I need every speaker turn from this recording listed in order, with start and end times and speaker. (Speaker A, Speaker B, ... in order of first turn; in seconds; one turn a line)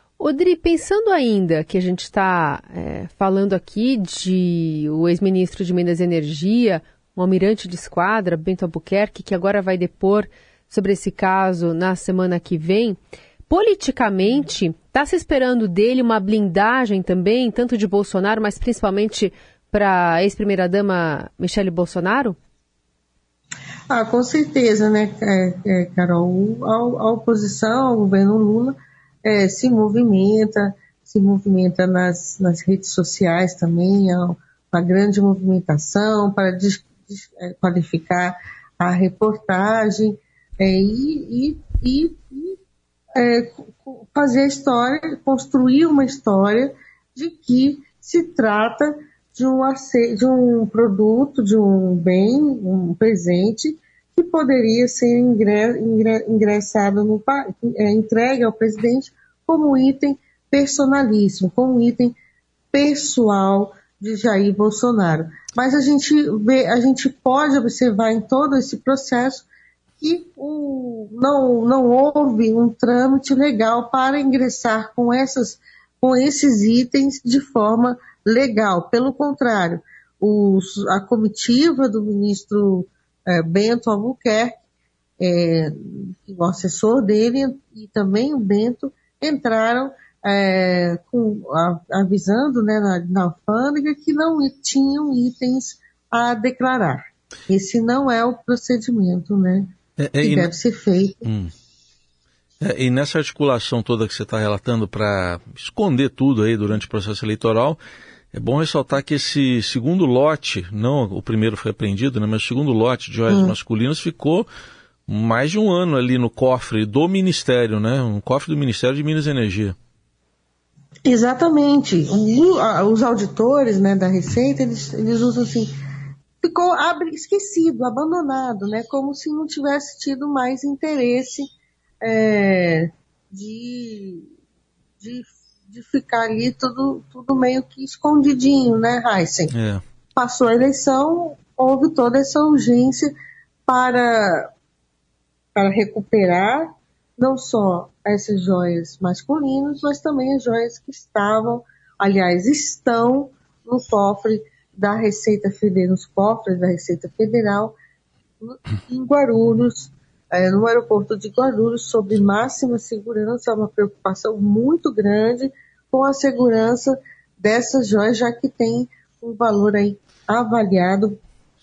Speaker A: 0.2-22.4
Speaker B: 23.9-42.6
Speaker B: 43.2-62.2
Speaker B: 62.7-69.5
Speaker B: 70.0-84.6
Speaker B: 85.2-99.7
Speaker C: 100.0-100.5
Speaker B: 100.2-101.2
Speaker C: 101.2-101.5
Speaker C: 102.6-107.8
Speaker C: 108.3-114.5
Speaker B: 113.3-113.5
Speaker C: 115.1-119.8
Speaker B: 121.0-125.7
Speaker B: 126.4-131.5
Speaker B: 132.0-134.3
Speaker B: 135.0-139.5
Speaker C: 139.5-139.8
Speaker B: 140.2-143.1
Speaker B: 143.7-144.5
Speaker B: 145.6-157.8
Speaker B: 158.4-171.2